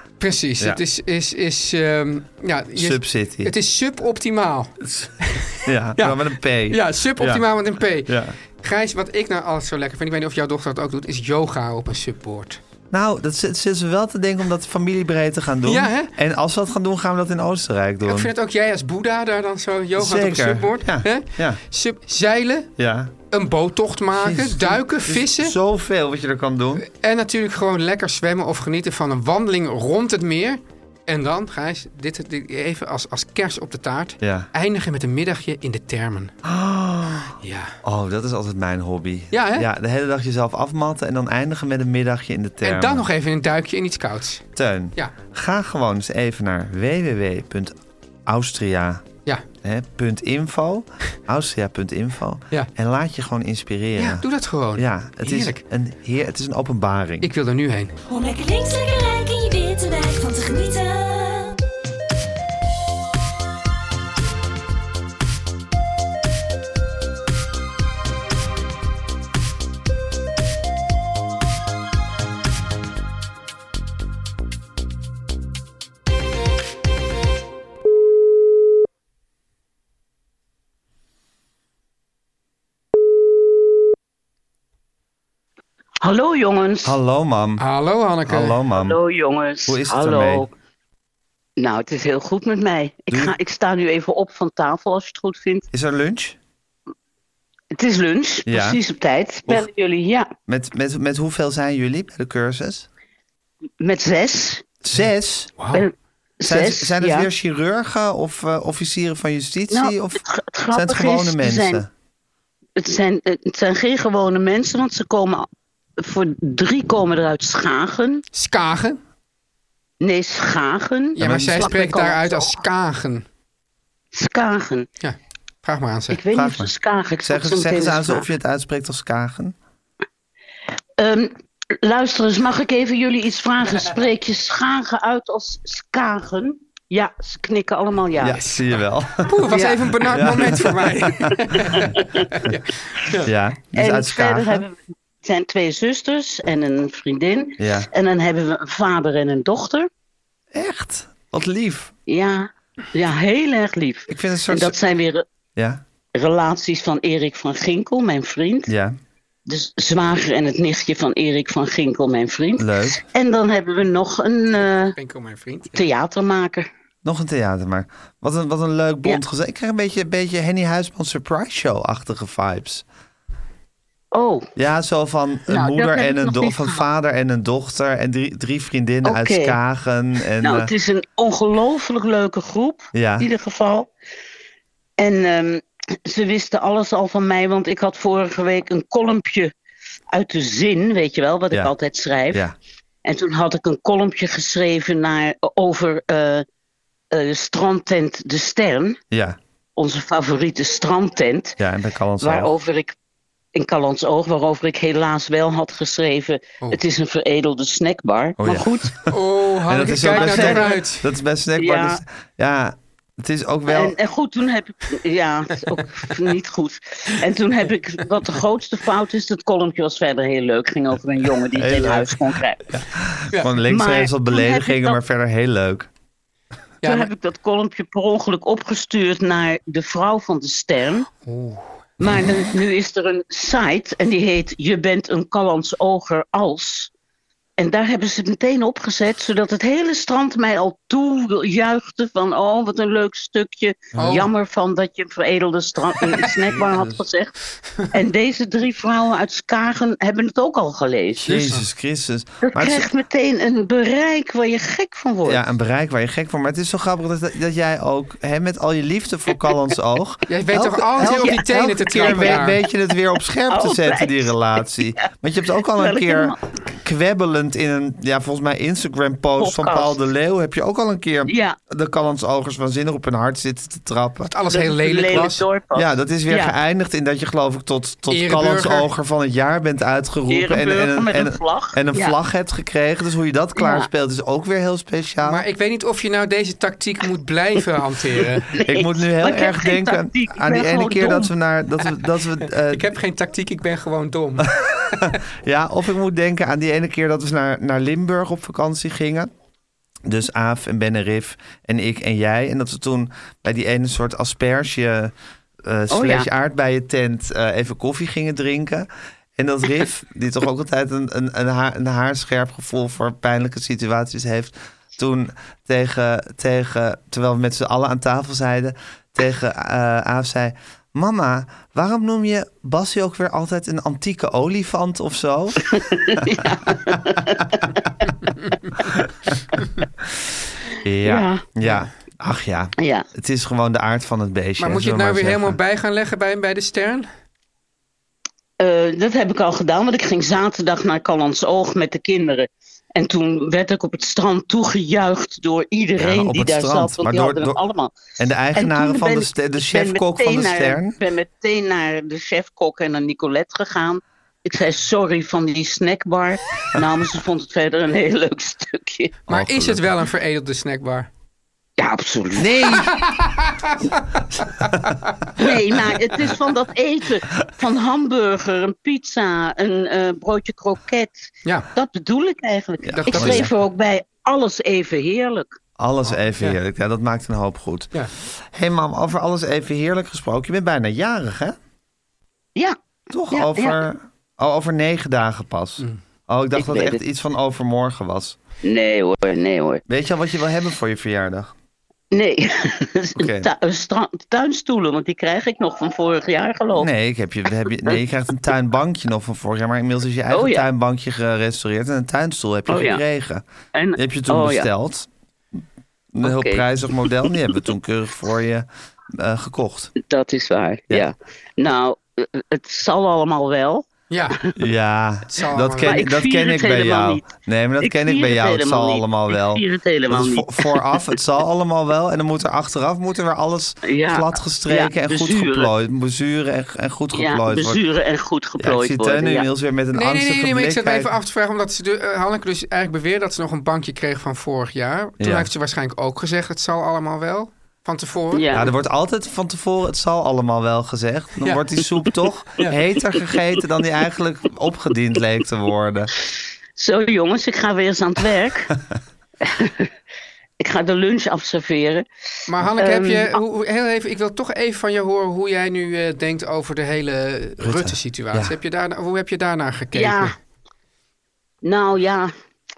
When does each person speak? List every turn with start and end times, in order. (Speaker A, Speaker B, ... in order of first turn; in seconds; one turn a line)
Speaker A: 0.2-12.6
Speaker B: 2.8-3.5
Speaker B: 4.8-7.5
Speaker B: 8.1-8.3
Speaker B: 12.9-18.3
Speaker A: 15.7-16.1
Speaker A: 18.1-22.7
Speaker B: 20.0-21.6
Speaker B: 22.8-23.1
Speaker A: 23.3-25.6
Speaker B: 24.1-26.9
Speaker A: 26.9-36.3
Speaker B: 34.2-34.5
Speaker B: 36.4-43.1
Speaker A: 37.4-37.8
Speaker A: 39.3-39.7
Speaker A: 42.6-44.4
Speaker B: 44.5-49.0
Speaker B: 49.6-54.2
Speaker A: 54.0-55.6
Speaker B: 54.8-57.3
Speaker A: 57.2-58.0
Speaker C: 58.0-61.6
Speaker D: 86.0-87.0
Speaker B: 86.8-87.6
Speaker A: 87.6-88.6
Speaker B: 88.3-89.0
Speaker D: 88.7-90.5
Speaker B: 89.7-90.5
Speaker D: 91.6-95.7
Speaker B: 95.7-96.4
Speaker D: 97.7-100.3
Speaker B: 98.5-98.8
Speaker B: 100.5-102.9
Speaker D: 103.8-104.6
Speaker B: 104.8-105.5
Speaker A: 105.6-105.9
Speaker D: 105.7-107.3
Speaker B: 106.4-111.9
Speaker D: 109.7-111.8
Speaker D: 112.8-115.5
Speaker D: 116.0-118.2
Speaker A: 118.3-119.0
Speaker D: 120.0-122.6
Speaker A: 121.2-123.2
Speaker B: 121.2-122.0
Speaker D: 124.1-124.9
Speaker A: 125.0-126.2
Speaker D: 126.1-128.3
Speaker B: 126.3-129.6
Speaker D: 131.0-138.4
Speaker B: 138.2-141.4
Speaker A: 138.3-138.6
Speaker A: 139.3-143.3
Speaker D: 139.5-139.8
Speaker D: 141.8-142.3
Speaker B: 143.2-144.6
Speaker D: 143.7-149.9
Speaker B: 147.6-147.9
Speaker B: 150.5-151.9
Speaker D: 152.1-155.2
Speaker B: 154.1-154.8
Speaker B: 155.6-155.8
Speaker D: 156.2-158.7
Speaker B: 158.7-159.0
Speaker D: 159.5-164.9
Speaker B: 162.6-163.0
Speaker A: 164.6-165.8
Speaker D: 165.8-166.7
Speaker B: 167.0-172.8
Speaker D: 174.1-174.5
Speaker B: 174.6-180.7
Speaker D: 175.5-176.8
Speaker D: 179.0-179.6
Speaker D: 180.4-183.9
Speaker B: 182.9-183.3
Speaker D: 185.0-189.5
Speaker D: 190.1-192.4
Speaker D: 193.1-196.4
Speaker D: 197.1-199.0
Speaker B: 199.1-199.4
Speaker D: 199.8-201.6
Speaker B: 201.6-202.5
Speaker D: 202.2-202.9
Speaker D: 203.6-209.1
Speaker B: 208.4-209.2
Speaker A: 209.1-211.1
Speaker B: 209.7-213.9
Speaker D: 210.0-210.6
Speaker D: 211.6-212.0
Speaker D: 213.7-222.6
Speaker B: 221.6-225.9
Speaker D: 223.6-225.0
Speaker A: 226.8-227.1
Speaker D: 226.8-231.1
Speaker A: 231.2-231.7
Speaker D: 232.0-236.9
Speaker D: 237.6-247.3
Speaker A: 243.9-244.3
Speaker B: 246.6-247.0
Speaker D: 247.9-251.5
Speaker B: 251.2-252.9
Speaker A: 251.3-251.6
Speaker D: 252.4-255.5
Speaker B: 255.3-274.3
Speaker A: 260.3-262.6
Speaker D: 261.0-262.6
Speaker D: 263.5-265.0
Speaker D: 265.8-266.4
Speaker D: 269.4-270.0
Speaker D: 271.3-271.6
Speaker A: 274.3-275.4
Speaker D: 274.5-276.6
Speaker B: 275.8-285.4
Speaker A: 278.1-278.9
Speaker D: 280.3-282.2
Speaker D: 283.6-283.9
Speaker A: 285.2-288.5
Speaker D: 288.5-291.3
Speaker B: 288.7-292.9
Speaker A: 292.7-295.1
Speaker B: 295.0-299.3
Speaker B: 300.1-325.6
Speaker D: 305.9-306.3
Speaker D: 325.6-328.1
Speaker B: 326.2-327.0
Speaker B: 330.8-335.6
Speaker D: 331.0-331.4
Speaker D: 332.8-333.1
Speaker A: 334.6-337.1
Speaker D: 338.6-348.0
Speaker B: 346.0-347.6
Speaker B: 348.2-351.0
Speaker D: 348.5-359.2
Speaker A: 359.3-361.1
Speaker B: 359.3-359.9
Speaker D: 361.8-362.8
Speaker B: 362.4-363.0
Speaker A: 362.7-365.4
Speaker B: 364.3-364.9
Speaker D: 365.4-375.6
Speaker B: 372.9-373.5
Speaker A: 372.9-373.5
Speaker B: 375.8-381.6
Speaker B: 383.1-388.4
Speaker D: 383.3-383.8
Speaker D: 386.6-387.0
Speaker D: 388.6-389.8
Speaker B: 389.9-391.5
Speaker D: 392.1-396.9
Speaker B: 393.1-393.5
Speaker B: 396.8-403.4
Speaker D: 400.3-400.6
Speaker D: 402.7-403.0
Speaker D: 403.7-404.7
Speaker B: 404.0-405.1
Speaker B: 406.1-409.9
Speaker D: 406.2-407.6
Speaker D: 410.0-413.9
Speaker A: 414.1-414.4
Speaker B: 414.6-427.8
Speaker A: 415.3-416.1
Speaker D: 415.9-417.3
Speaker D: 417.8-421.1
Speaker D: 423.8-425.7
Speaker D: 427.1-429.5
Speaker B: 428.6-431.1
Speaker A: 429.9-438.5
Speaker B: 435.2-435.5
Speaker D: 438.3-438.7
Speaker B: 438.5-446.1
Speaker D: 446.8-448.7
Speaker D: 449.4-449.9
Speaker D: 450.6-452.1
Speaker A: 452.5-460.4
Speaker D: 452.8-453.4
Speaker B: 457.6-458.6
Speaker D: 459.9-460.4
Speaker D: 461.6-462.3